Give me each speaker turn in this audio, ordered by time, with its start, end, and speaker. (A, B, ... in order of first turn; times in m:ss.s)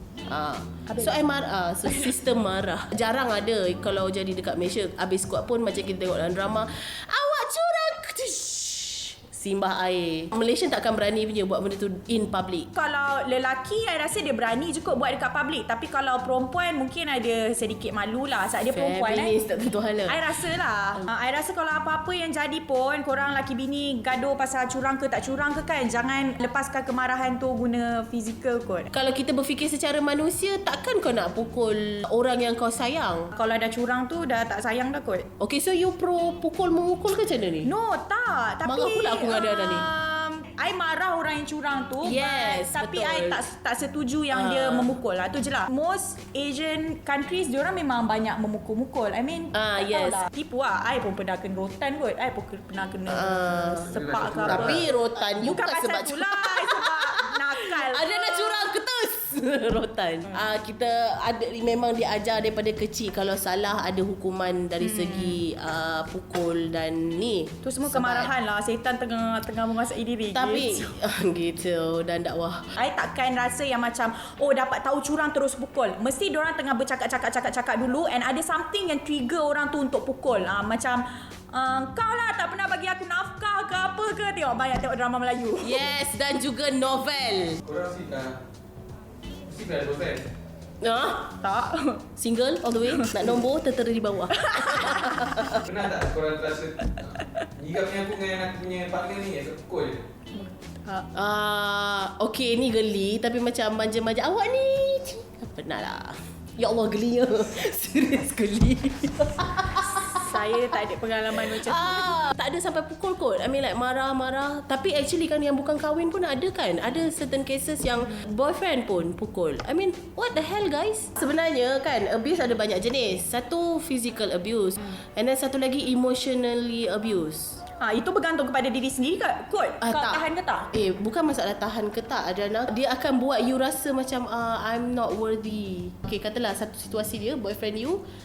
0:00.3-0:12.7 A
0:00.9-0:01.2 B
0:12.7-0:19.3 B
0:18.7-0:20.2 A
0:20.1-0:28.9 B
0:28.9-0:33.3 A
0:33.3-0:35.3 B
0:35.4-0:37.7 A
0:37.6-0:58.7 B
0:38.6-0:39.9 A
0:42.0-0:43.4 A
0:44.3-0:44.9 A
0:49.5-0:50.2 A
0:53.1-1:08.3 A
0:53.9-0:54.8 C
1:04.8-1:05.3 B
1:07.6-1:10.9 B
1:10.3-1:12.8 A
1:12.7-1:26.0 B
1:25.6-1:27.6 A
1:27.6-1:28.4 C
1:29.5-1:30.3 C
1:30.8-1:31.3 A
1:31.4-1:32.0 B
1:32.2-1:35.6 A
1:34.4-1:35.4 B
1:35.6-1:40.0 C
1:40.3-1:41.1 B
1:41.1-1:50.2 A
1:49.9-1:52.2 B
1:51.3-2:07.6 A
2:07.8-2:10.7 B
2:09.8-2:18.0 A